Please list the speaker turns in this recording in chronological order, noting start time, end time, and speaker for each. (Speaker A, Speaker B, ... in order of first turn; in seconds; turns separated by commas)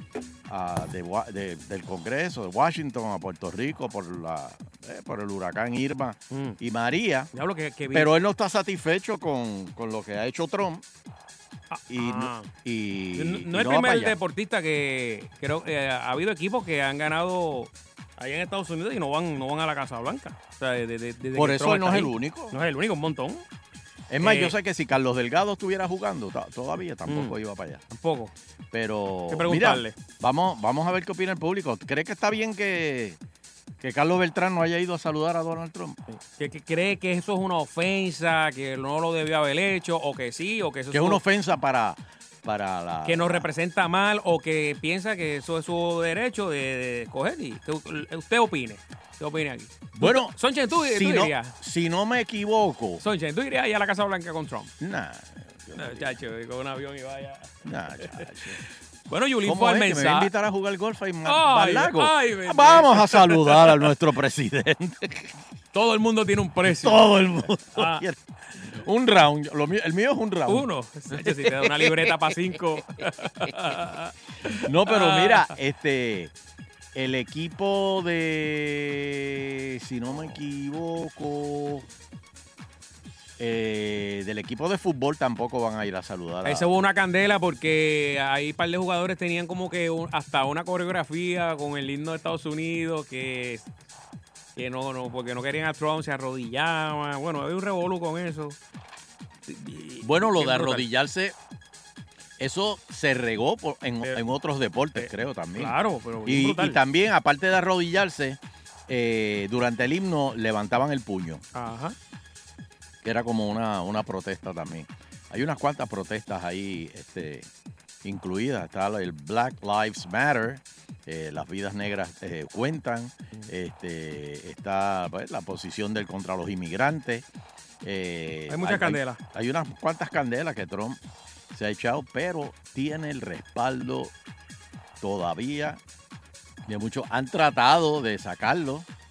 Speaker A: 0.5-7.3, Speaker B: 6.3-6.6, Speaker B: 7.3-8.1, Speaker A: 7.9-10.8, Speaker B: 11.7-12.5, Speaker A: 11.9-14.2, Speaker B: 13.2-23.4, Speaker A: 21.4-22.5, Speaker A: 24.1-27.8, Speaker B: 24.2-24.6, Speaker B: 27.1-27.4, Speaker B: 27.9-28.3, Speaker A: 28.7-33.2, Speaker B: 29.3-30.0, Speaker A: 33.8-36.0, Speaker B: 36.1-41.2, Speaker A: 40.9-43.5, Speaker B: 43.0-51.5, Speaker A: 50.0-53.0, Speaker B: 53.0-54.7, Speaker A: 54.8-56.1, Speaker B: 55.8-58.2, Speaker A: 57.6-58.6, Speaker B: 59.1-60.3, Speaker A: 59.4-65.3, Speaker B: 61.2-63.9, Speaker B: 65.7-67.1, Speaker A: 66.6-68.2, Speaker B: 67.7-68.0, Speaker A: 68.7-72.1, Speaker B: 70.5-75.5, Speaker A: 74.7-76.3, Speaker A: 76.9-81.8, Speaker A: 83.4-86.7, Speaker B: 86.4-93.7, Speaker B: 94.5-98.6, Speaker B: 99.5-100.9, Speaker A: 100.0-101.3, Speaker A: 102.4-105.7, Speaker B: 104.9-106.8, Speaker A: 106.2-111.4, Speaker B: 111.5-112.0, Speaker A: 113.0-117.5, Speaker A: 118.0-127.2, Speaker A: 127.8-131.0, Speaker B: 128.5-129.2, Speaker A: 131.5-134.1, Speaker A: 135.0-135.8, Speaker A: 136.7-138.8